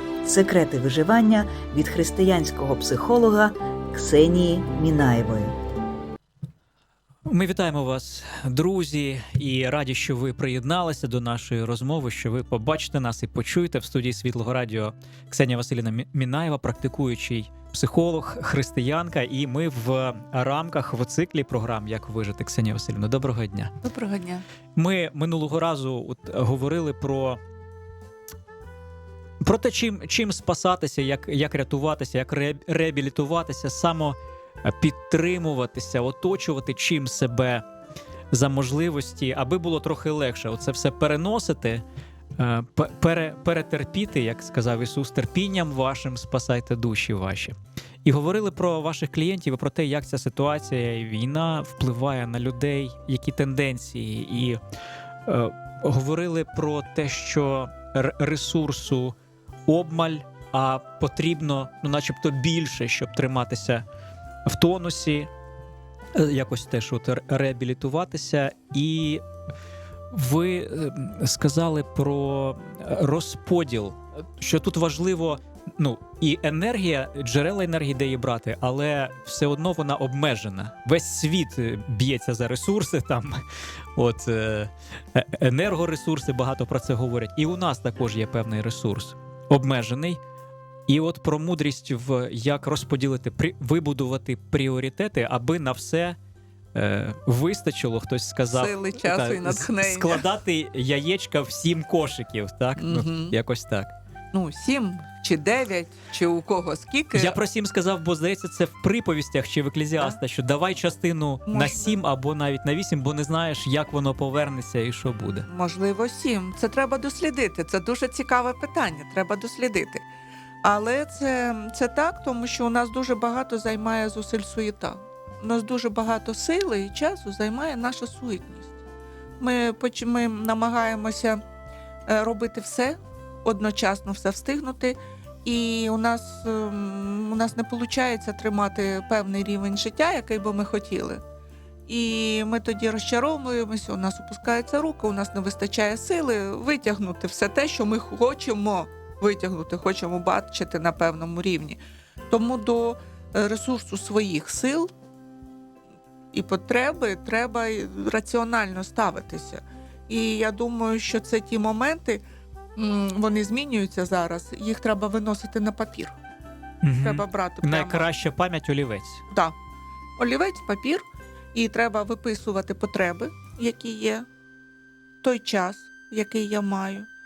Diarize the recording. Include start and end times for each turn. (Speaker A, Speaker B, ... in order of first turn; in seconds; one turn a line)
Speaker A: 0.2-5.6
Speaker B: 7.3-23.7
Speaker C: 23.8-24.4
Speaker B: 24.8-27.4
Speaker B: 29.4-37.6
Speaker B: 38.3-41.8
Speaker B: 42.4-54.6
Speaker B: 55.2-59.1
Speaker B: 59.7-63.8
Speaker B: 64.4-65.3
Speaker B: 66.1-69.2
Speaker B: 70.1-83.4
Speaker B: 83.9-90.2
Speaker B: 90.9-96.2
Speaker B: 96.7-103.9
Speaker C: 98.5-100.2
Speaker C: 102.8-103.3
Speaker C: 104.3-107.4
Speaker B: 107.1-115.5
Speaker C: 111.5-112.0
Speaker C: 115.5-120.0
Speaker C: 120.6-128.8
Speaker C: 129.4-131.4
Speaker C: 132.1-141.2
Speaker C: 141.9-151.8
Speaker C: 152.3-154.9
Speaker C: 156.3-162.2
Speaker C: 162.8-166.2
Speaker B: 166.8-169.2
Speaker C: 167.0-168.1
Speaker C: 170.2-174.2
Speaker C: 175.2-177.1